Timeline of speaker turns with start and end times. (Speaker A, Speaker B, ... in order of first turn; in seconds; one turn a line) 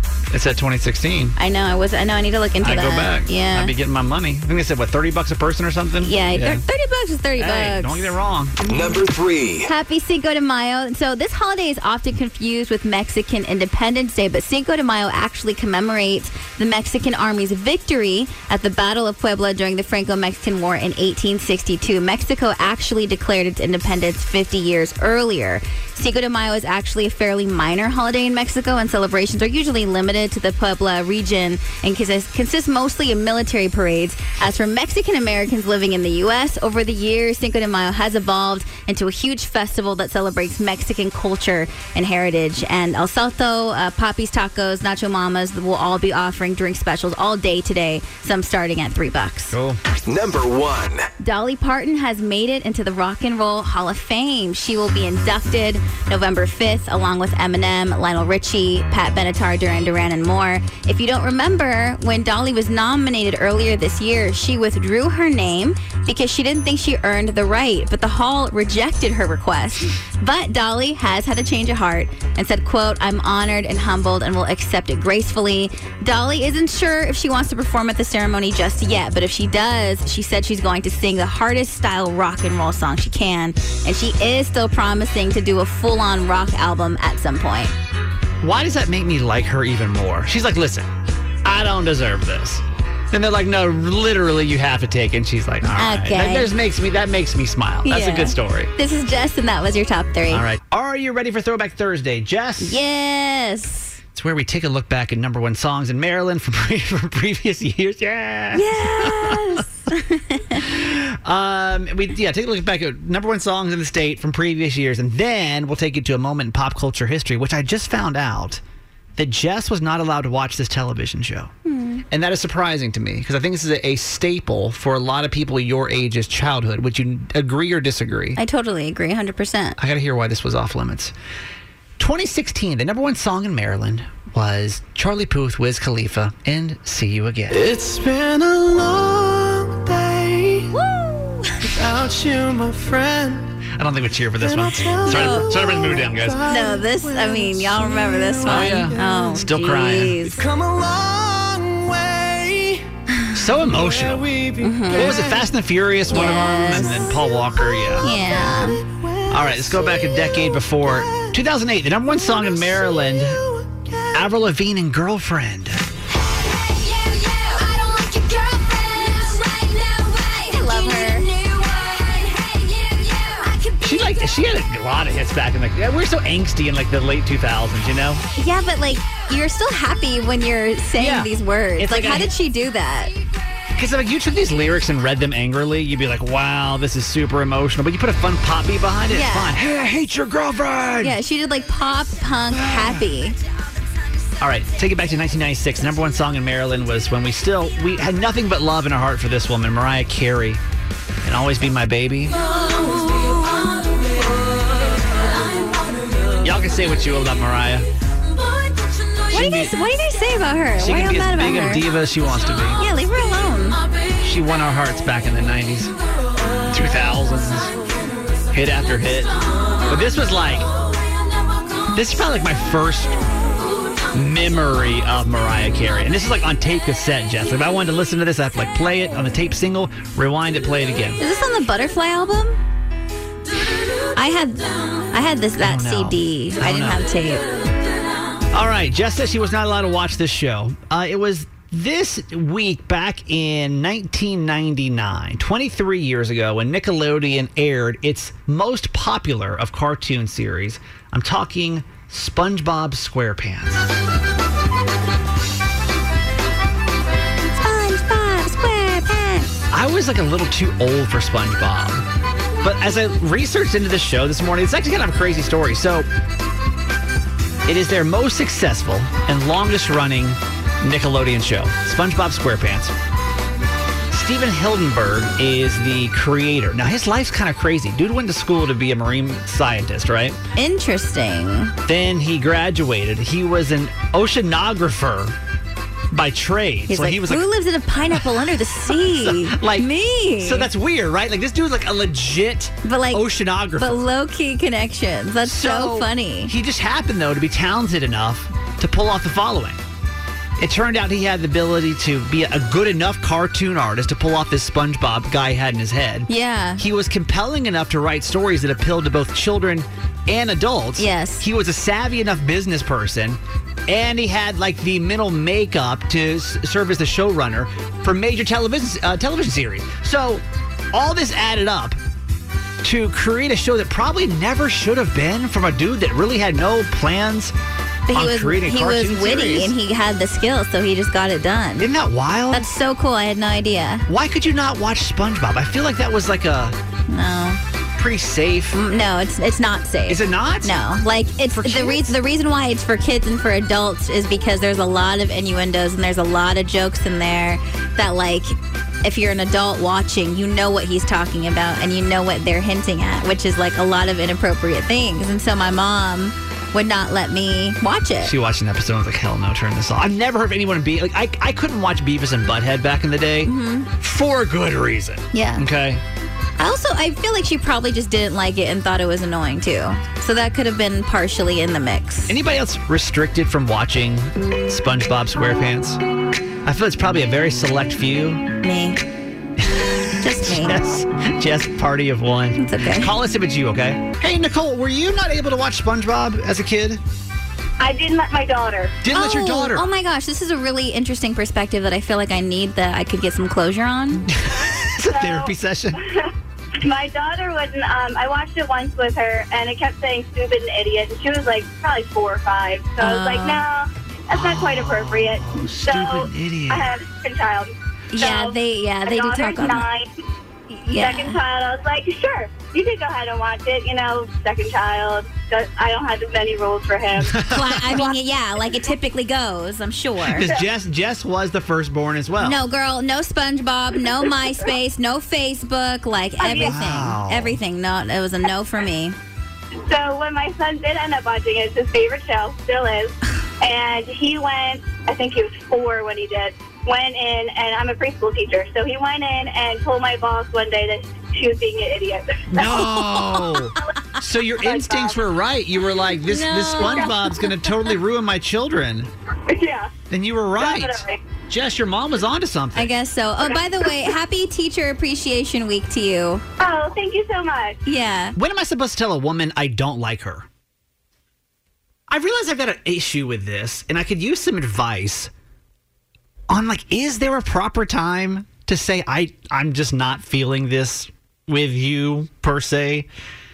Speaker A: 0.3-1.4
Speaker B: 1.4-3.7
Speaker A: 2.6-6.6
Speaker B: 6.0-8.1
Speaker A: 7.4-8.6
Speaker C: 8.6-9.7
Speaker B: 9.7-49.6
Speaker A: 49.5-49.8
Speaker C: 50.1-51.1
Speaker B: 51.2-87.7
Speaker A: 88.4-90.9
Speaker A: 91.4-98.7
Speaker B: 95.7-96.5
Speaker B: 97.8-100.5
Speaker A: 100.3-102.8
Speaker B: 102.6-104.0
Speaker A: 104.1-109.6
Speaker B: 108.5-110.6
Speaker A: 110.5-118.6
Speaker A: 119.2-121.5
Speaker B: 121.6-122.0
Speaker A: 122.1-128.4
Speaker B: 128.4-129.8
Speaker A: 129.8-131.1
Speaker A: 132.0-137.6
Speaker D: 137.5-140.7
Speaker B: 140.7-141.5
Speaker D: 141.6-143.6
Speaker A: 143.7-146.5
Speaker D: 144.4-149.5
Speaker B: 145.0-150.4
Speaker A: 148.4-150.3
Speaker D: 150.3-152.8
Speaker A: 153.3-154.3
Speaker D: 153.5-155.6
Speaker B: 154.6-155.2
Speaker A: 154.9-158.1
Speaker B: 156.1-157.2
Speaker D: 157.0-161.4
Speaker B: 158.0-158.8
Speaker A: 159.3-163.4
Speaker D: 162.0-164.4
Speaker A: 164.1-165.8
Speaker B: 170.4-171.3
Speaker D: 170.7-171.5
Speaker A: 173.8-178.2
Speaker B: 178.4-183.1
Speaker A: 181.0-182.3
Speaker A: 183.7-191.2
Speaker B: 189.1-189.6
Speaker B: 191.0-193.4
Speaker A: 192.5-193.0
Speaker A: 194.4-200.6
Speaker A: 201.2-202.4
Speaker A: 206.4-207.9
Speaker A: 209.3-209.7
Speaker B: 209.3-211.9
Speaker A: 210.8-212.8
Speaker B: 212.8-213.8
Speaker A: 214.2-215.9
Speaker A: 216.7-217.7
Speaker A: 218.5-220.7
Speaker A: 221.9-223.2
Speaker A: 224.1-231.2
Speaker B: 231.2-232.6
Speaker B: 234.1-237.4
Speaker A: 235.6-237.0
Speaker A: 238.5-253.9
Speaker B: 257.5-259.5
Speaker A: 259.7-262.0
Speaker A: 262.6-266.1
Speaker A: 267.7-272.9
Speaker A: 274.1-280.4
Speaker B: 280.6-281.7
Speaker A: 281.9-285.3
Speaker A: 286.1-287.4
Speaker B: 286.9-290.7
Speaker A: 288.9-289.9
Speaker A: 290.4-294.0
Speaker B: 292.8-296.5
Speaker A: 295.4-299.8
Speaker A: 300.6-322.0
Speaker B: 306.3-306.8
Speaker B: 311.0-311.5
Speaker A: 322.8-327.5
Speaker B: 328.1-331.9
Speaker A: 328.1-329.7
Speaker A: 331.8-332.7
Speaker B: 332.5-334.1
Speaker A: 334.1-336.7
Speaker B: 337.1-337.6
Speaker A: 338.0-338.8
Speaker B: 338.7-358.3
Speaker A: 340.1-340.8
Speaker A: 341.5-342.1
Speaker A: 358.2-366.0
Speaker B: 363.4-363.9
Speaker B: 365.3-365.6
Speaker B: 366.6-372.4
Speaker A: 372.3-376.0
Speaker A: 376.6-378.4
Speaker B: 378.6-379.0
Speaker A: 379.6-387.0
Speaker B: 380.2-380.8
Speaker B: 382.6-383.1
Speaker E: 387.8-388.9
Speaker A: 389.0-389.9
Speaker B: 389.1-394.3
Speaker A: 394.3-396.0
Speaker E: 395.1-395.5
Speaker E: 396.8-410.1
Speaker B: 403.0-403.6
Speaker A: 404.3-406.9
Speaker B: 408.1-409.9
Speaker B: 410.7-411.4
Speaker E: 410.9-417.4
Speaker A: 417.2-418.0
Speaker B: 417.5-420.5
Speaker A: 420.2-422.6
Speaker B: 422.4-429.1
Speaker E: 426.4-426.7
Speaker A: 426.4-427.6
Speaker E: 429.9-442.8
Speaker A: 442.5-449.1
Speaker E: 444.7-445.0
Speaker B: 446.3-447.5
Speaker E: 449.5-449.9
Speaker A: 450.1-452.9
Speaker E: 450.6-451.2
Speaker B: 452.7-456.4
Speaker E: 456.6-457.8
Speaker B: 457.9-458.4
Speaker A: 458.4-460.4
Speaker A: 462.1-465.3
Speaker A: 466.5-473.1